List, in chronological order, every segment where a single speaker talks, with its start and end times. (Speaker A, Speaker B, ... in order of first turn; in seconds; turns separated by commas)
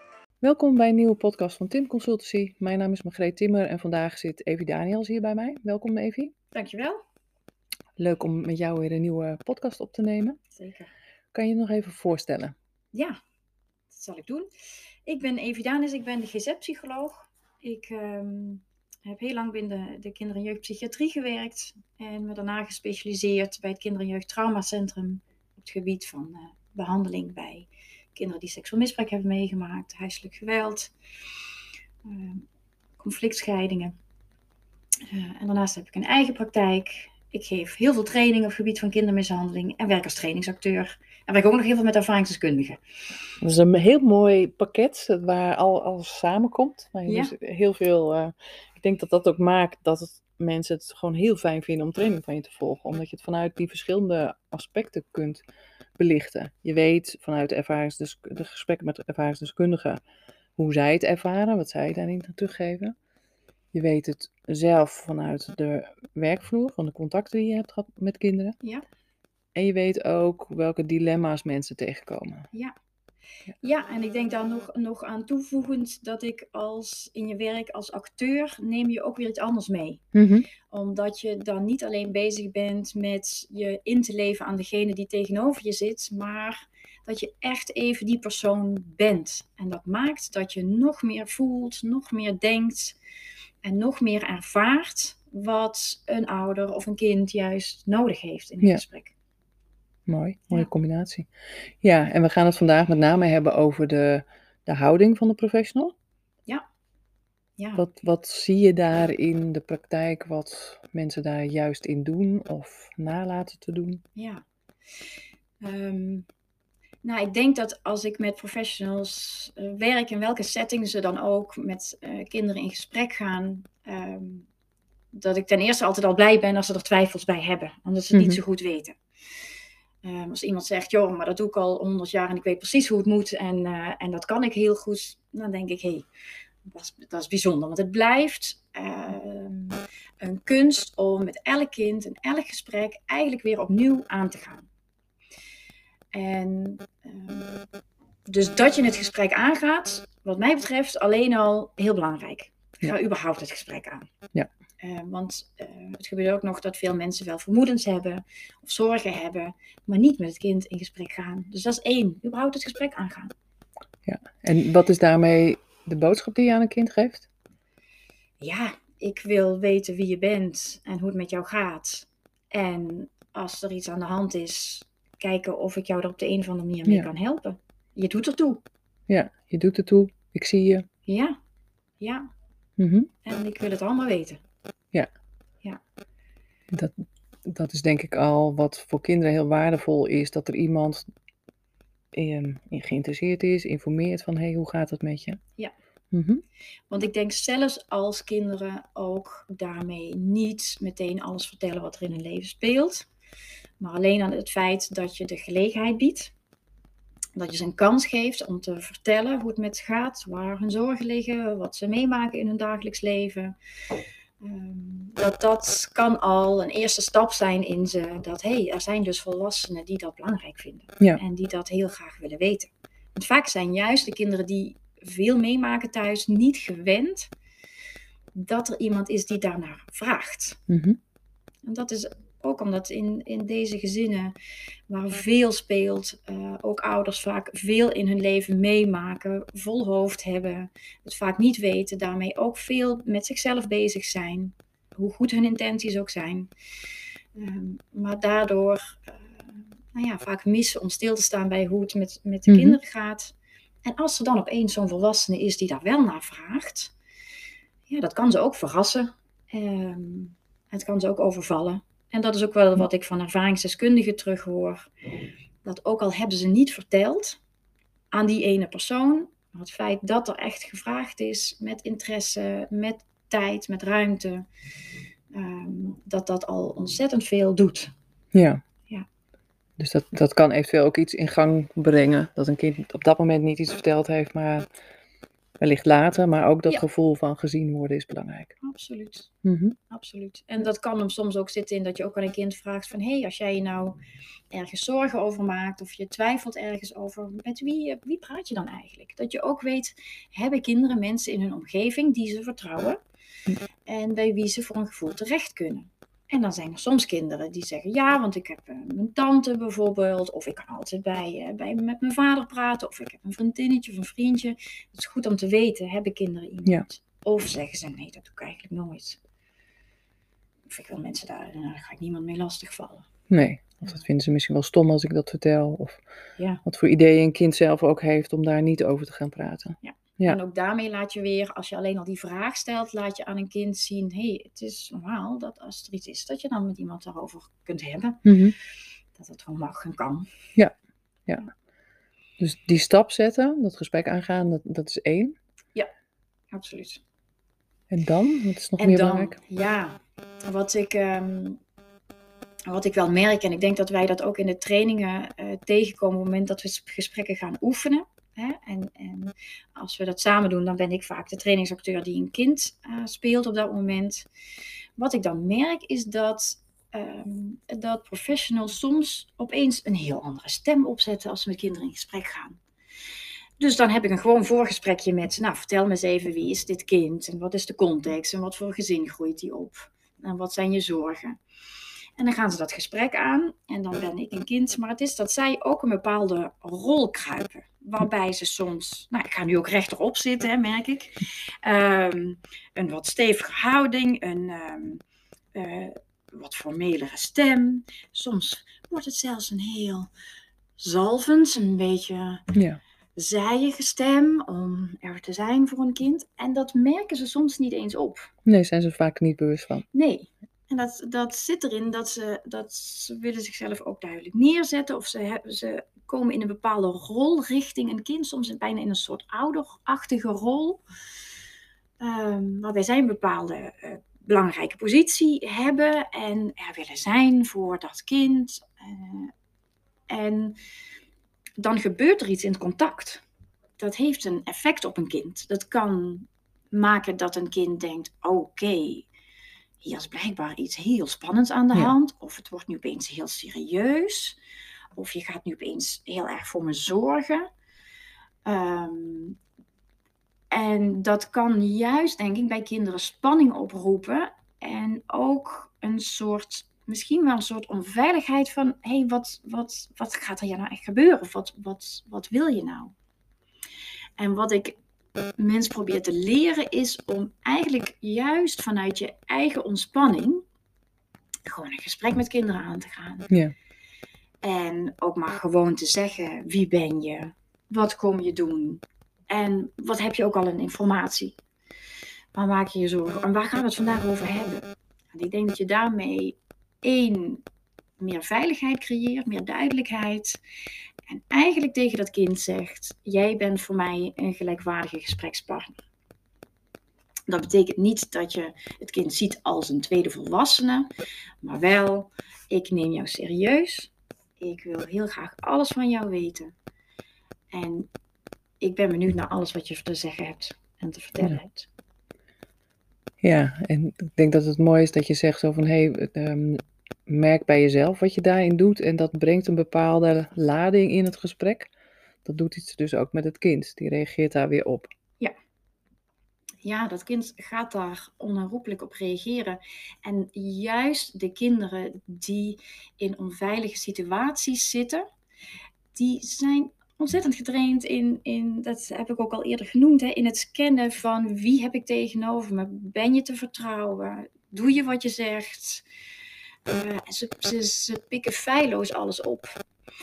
Speaker A: 0.4-6.3, Speaker B: 6.5-7.0, Speaker A: 8.0-10.4, Speaker B: 10.5-10.9, Speaker A: 11.3-12.6, Speaker B: 12.9-13.2, Speaker B: 13.9-14.5, Speaker B: 15.1-30.9, Speaker B: 32.0-32.5, Speaker B: 33.0-34.0, Speaker B: 35.1-42.8, Speaker A: 43.4-55.4, Speaker B: 47.1-47.3, Speaker A: 56.0-60.0, Speaker A: 60.6-63.0, Speaker A: 63.7-68.6, Speaker A: 69.5-72.5, Speaker B: 73.6-80.0, Speaker A: 80.1-80.5, Speaker B: 80.7-93.0, Speaker B: 93.6-99.1, Speaker A: 100.1-106.0, Speaker B: 107.6-107.8, Speaker A: 107.8-114.0, Speaker B: 114.2-114.4, Speaker B: 115.6-116.3, Speaker B: 117.0-124.5, Speaker B: 125.1-129.0, Speaker A: 128.1-128.4, Speaker B: 130.0-136.1, Speaker B: 136.7-144.7, Speaker B: 146.1-147.6, Speaker B: 148.3-154.1, Speaker B: 154.8-163.3, Speaker A: 164.1-167.3, Speaker B: 168.4-178.6, Speaker A: 179.1-180.9, Speaker B: 181.1-181.4, Speaker B: 182.0-182.3, Speaker A: 182.8-183.1, Speaker B: 183.2-184.4, Speaker A: 187.4-191.1, Speaker A: 192.1-195.4, Speaker A: 196.1-196.4, Speaker B: 196.9-203.1, Speaker B: 203.8-206.3, Speaker B: 207.4-213.6, Speaker B: 214.4-227.3, Speaker B: 228.3-230.6, Speaker A: 230.7-231.0, Speaker B: 231.7-234.3, Speaker B: 234.9-246.5, Speaker B: 247.3-256.9, Speaker A: 252.5-252.8, Speaker B: 257.9-264.9, Speaker B: 265.6-267.4, Speaker B: 268.1-274.5, Speaker B: 275.3-277.9, Speaker A: 278.3-278.6, Speaker A: 279.8-284.7, Speaker A: 285.6-288.6, Speaker B: 288.6-289.3, Speaker A: 289.4-289.8, Speaker B: 289.9-294.0, Speaker B: 294.5-303.0, Speaker B: 303.9-319.2, Speaker B: 320.7-323.1, Speaker A: 323.3-326.0, Speaker A: 326.7-330.4, Speaker B: 329.8-338.2, Speaker A: 338.2-338.6, Speaker B: 339.2-340.3, Speaker A: 342.4-345.4, Speaker B: 346.5-347.0, Speaker A: 347.9-349.4, Speaker B: 348.8-351.6, Speaker B: 352.7-364.3, Speaker B: 365.0-372.6, Speaker B: 373.6-381.4, Speaker B: 382.2-395.0, Speaker B: 395.5-400.1, Speaker B: 400.8-402.4, Speaker A: 402.5-402.8, Speaker B: 403.2-408.3, Speaker A: 408.4-409.9, Speaker B: 409.9-420.8, Speaker B: 422.0-429.3, Speaker B: 430.1-430.6, Speaker B: 431.6-433.2, Speaker B: 433.8-439.1, Speaker B: 439.8-444.4, Speaker B: 444.9-447.5, Speaker B: 448.5-449.4, Speaker B: 450.5-462.9, Speaker B: 464.2-464.8, Speaker B: 465.4-470.4, Speaker B: 471.5-473.3, Speaker B: 474.4-481.4, Speaker B: 482.4-487.4, Speaker B: 488.0-490.4, Speaker B: 491.1-495.8, Speaker B: 497.3-500.9, Speaker B: 501.4-506.5, Speaker B: 507.5-507.9, Speaker B: 508.6-511.7, Speaker A: 513.2-521.7, Speaker A: 522.2-524.9, Speaker B: 526.6-535.1, Speaker B: 535.9-545.8, Speaker B: 546.7-549.6